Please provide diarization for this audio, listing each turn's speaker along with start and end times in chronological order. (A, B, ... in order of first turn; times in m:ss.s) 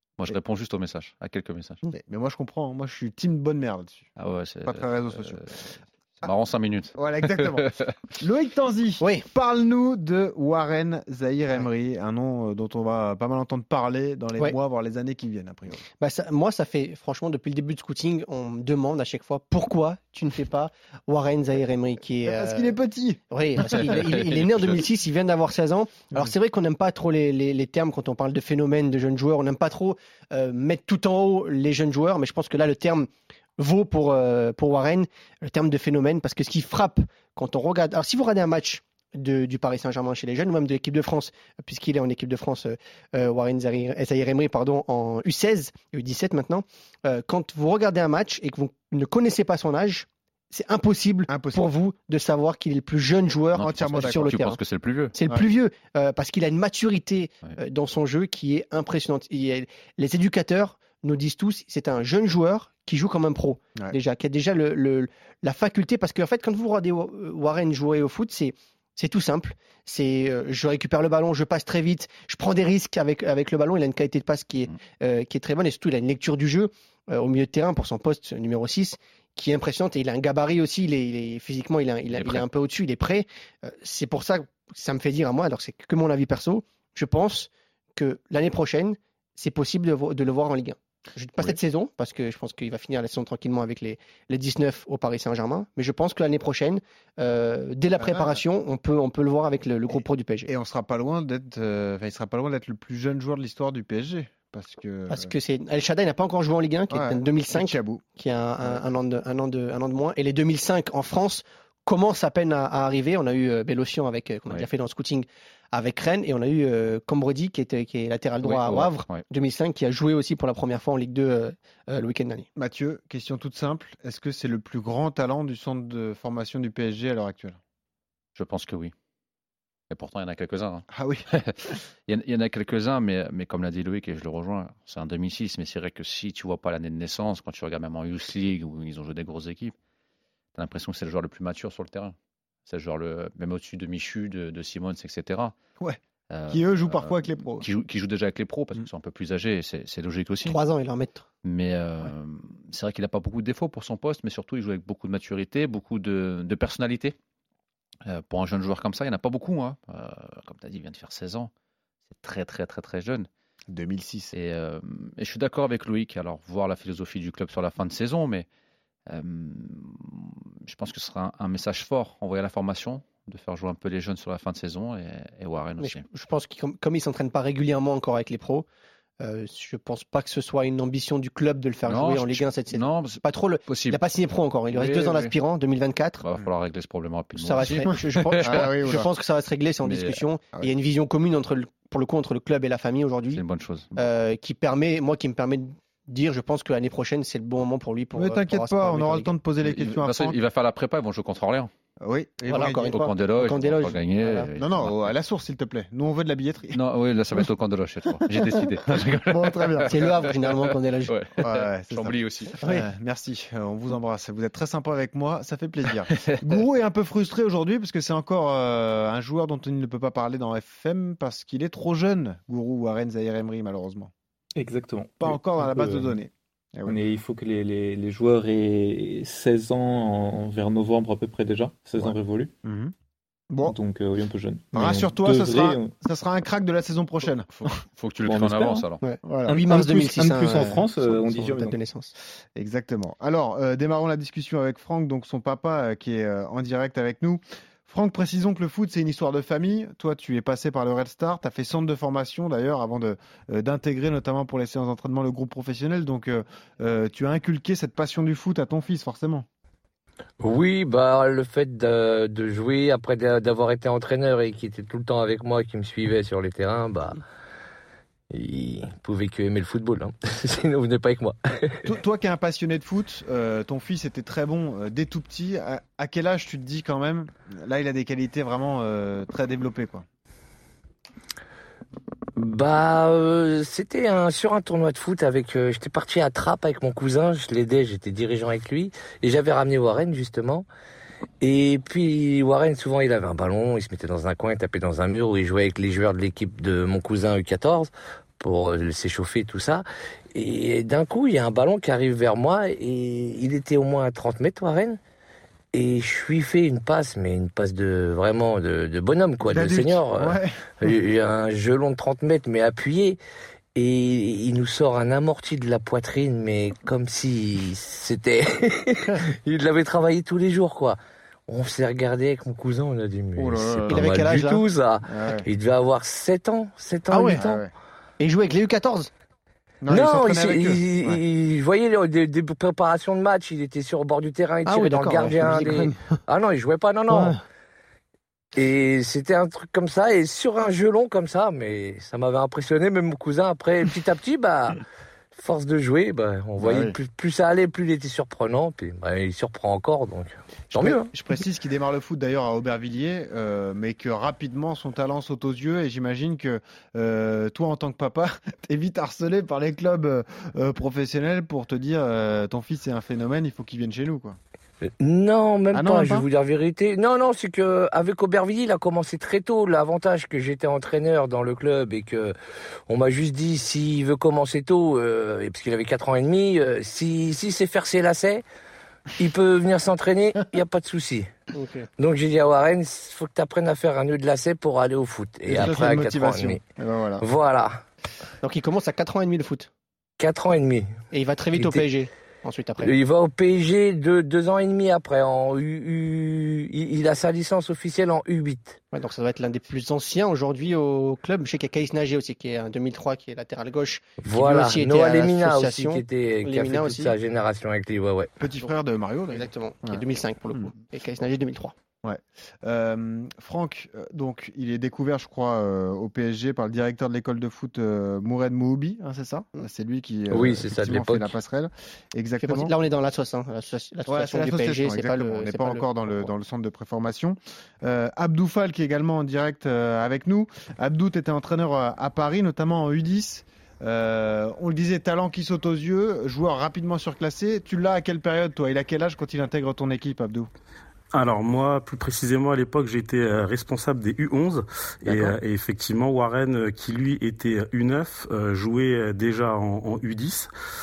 0:00.2-0:01.8 A
0:01.9-0:04.1 B
0:04.2-0:07.9 A
0:04.6-0:05.4 B
0:06.9-0:15.8 B
0:16.0-0:22.7 C
0:22.3-0:23.2 B
0:23.3-0:54.6 C
0:23.7-0:24.8 A
0:51.3-0:51.7 B
0:53.5-0:55.1 A
0:53.6-0:54.3 B
0:55.1-1:40.5 C
1:22.1-1:22.4 A
1:38.0-1:38.4 B
1:40.4-1:45.3 B
1:45.1-2:02.5 C
1:46.9-1:48.0 B
1:48.6-1:48.9 B
1:58.4-1:59.2 A
2:02.6-2:07.6 B
2:08.4-2:08.9 A
2:09.9-2:11.6 A
2:10.9-2:11.3 B
2:12.1-2:19.8 A
2:20.5-2:22.1 A
2:22.7-2:25.6 A
2:25.8-2:27.6 B
2:26.3-2:30.6 A
2:30.4-2:31.2 C
2:31.4-2:37.2 A
2:38.0-2:41.5 A
2:42.1-2:43.3 A
2:43.7-2:44.3 B
2:44.3-2:48.5 A
2:49.1-2:56.0 A
2:55.8-2:58.7 C
2:59.2-3:06.2 C
3:01.8-3:04.0 A
3:04.7-3:05.3 A
3:06.2-3:09.0 A
3:07.4-3:13.4 C
3:08.4-3:09.1 B
3:09.8-3:10.2 A
3:13.3-3:13.9 A
3:14.0-3:19.3 C
3:18.1-3:20.4 B
3:19.6-3:21.7 A
3:22.0-3:23.0 B
3:22.5-3:24.5 C
3:22.5-3:25.1 A
3:24.5-3:26.8 B
3:26.7-3:32.6 A
3:28.9-3:30.0 B
3:29.9-3:31.1 C
3:31.4-3:44.1 B
3:32.6-3:32.9 C
3:36.1-3:36.5 A
3:44.5-3:46.2 D
3:45.2-3:47.0 B
3:46.8-3:52.5 D
3:52.0-3:52.9 B
3:53.5-3:53.8 B
3:53.6-3:55.9 D
3:54.7-3:57.5 B
3:57.5-3:59.0 A
3:58.2-3:58.9 D
3:59.0-4:02.1 C
3:59.2-3:59.6 B
3:59.5-4:01.8 D
4:02.6-4:19.4 B
4:20.4-4:27.2 E
4:28.3-4:31.9 E
4:31.8-4:40.0 B
4:42.4-4:50.7 E
4:51.4-5:05.0 E
5:05.7-5:13.2 E
5:09.5-5:10.9 B
5:13.7-5:27.5 E
5:23.4-5:24.1 B
5:23.9-5:24.6 C
5:25.0-5:25.5 B
5:27.1-5:27.6 C
5:27.3-5:27.7 B
5:28.2-5:29.1 C
5:29.8-5:31.2 B
5:29.9-5:37.4 E
5:34.6-5:35.9 C
5:38.5-5:44.8 E
5:45.3-5:51.1 E
5:46.6-5:47.0 B
5:50.7-6:04.4 B
6:05.0-6:12.3 E
6:05.7-6:06.3 B
6:12.9-6:18.4 E
6:19.2-6:21.3 E
6:21.5-6:21.9 C
6:22.0-6:26.6 E
6:25.5-6:27.2 B
6:27.2-6:27.8 E
6:28.4-6:29.7 C
6:30.2-6:30.9 E
6:31.1-6:32.9 C
6:31.5-6:31.8 E
6:32.8-6:38.8 E
6:38.9-6:47.2 C
6:44.2-6:48.3 E
6:48.4-6:50.0 B
6:49.3-6:51.7 C
6:52.0-7:02.7 B
7:00.3-7:01.3 E
7:02.4-7:06.3 C
7:04.1-7:20.5 B
7:21.1-7:30.5 F